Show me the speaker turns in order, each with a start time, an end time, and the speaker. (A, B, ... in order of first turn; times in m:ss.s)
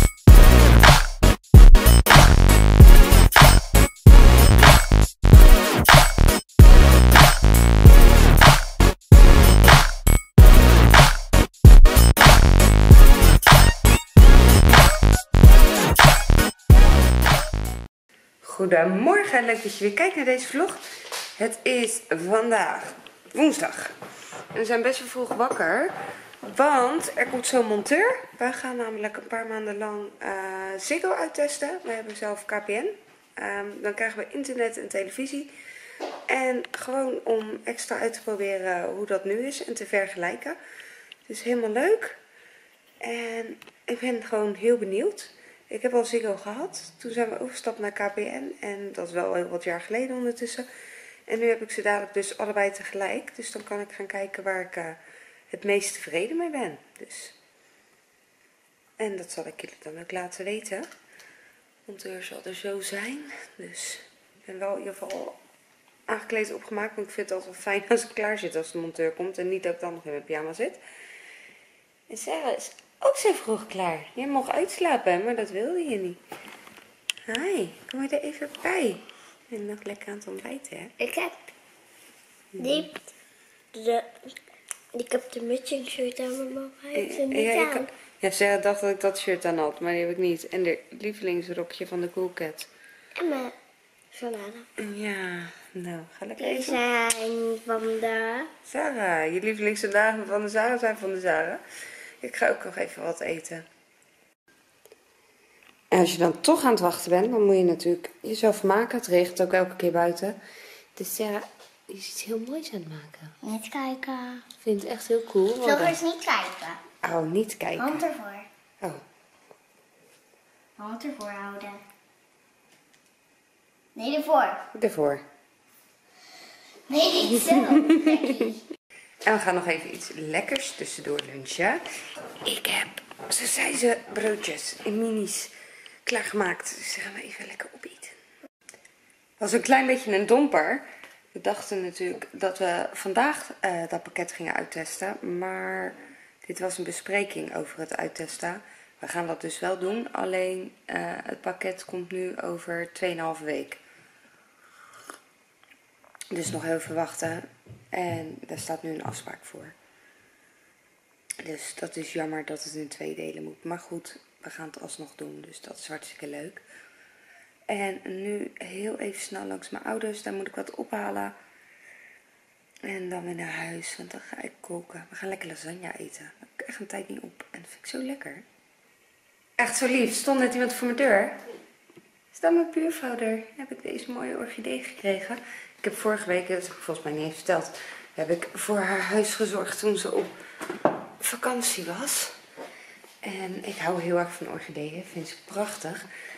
0:18.4-0:20.8 A
0:21.4-0:24.0 A
0:24.5-0:35.5 A
0:36.3-0:40.6 A
0:41.3-0:42.2 A
0:43.0-0:50.6 A
0:51.3-0:57.4 A
0:59.0-1:00.9 A
1:01.9-1:05.4 A
1:06.1-1:10.8 A
1:12.1-1:16.2 A
1:17.3-1:21.0 A
1:21.0-1:21.4 B
1:22.6-1:22.8 A
1:22.6-1:23.0 B
1:23.7-1:24.4 B
1:24.9-1:27.9 B
1:26.9-1:32.7 A
1:33.2-1:33.6 B
1:34.1-1:34.7 B
1:34.8-1:36.8 A
1:36.4-1:38.5 B
1:38.6-1:41.6 A
1:42.2-1:43.7 A
1:45.9-1:50.4 A
1:51.0-1:53.4 A
1:53.4-1:54.5 B
1:54.6-1:56.0 A
1:55.6-1:56.8 B
1:57.0-1:58.1 A
1:57.8-1:58.5 B
2:00.8-2:01.8 B
2:04.0-2:04.6 B
2:04.7-2:05.2 A
2:06.9-2:08.6 B
2:07.4-2:08.5 A
2:09.2-2:11.8 A
2:12.4-2:15.5 A
2:16.0-2:18.2 A
2:19.4-2:33.8 A
2:36.3-2:39.8 A
2:41.4-2:46.6 A
2:47.7-2:51.3 A
2:52.8-2:58.5 A
2:59.6-3:01.4 A
3:02.3-3:10.3 A
3:11.2-3:12.4 A
3:13.2-3:16.1 A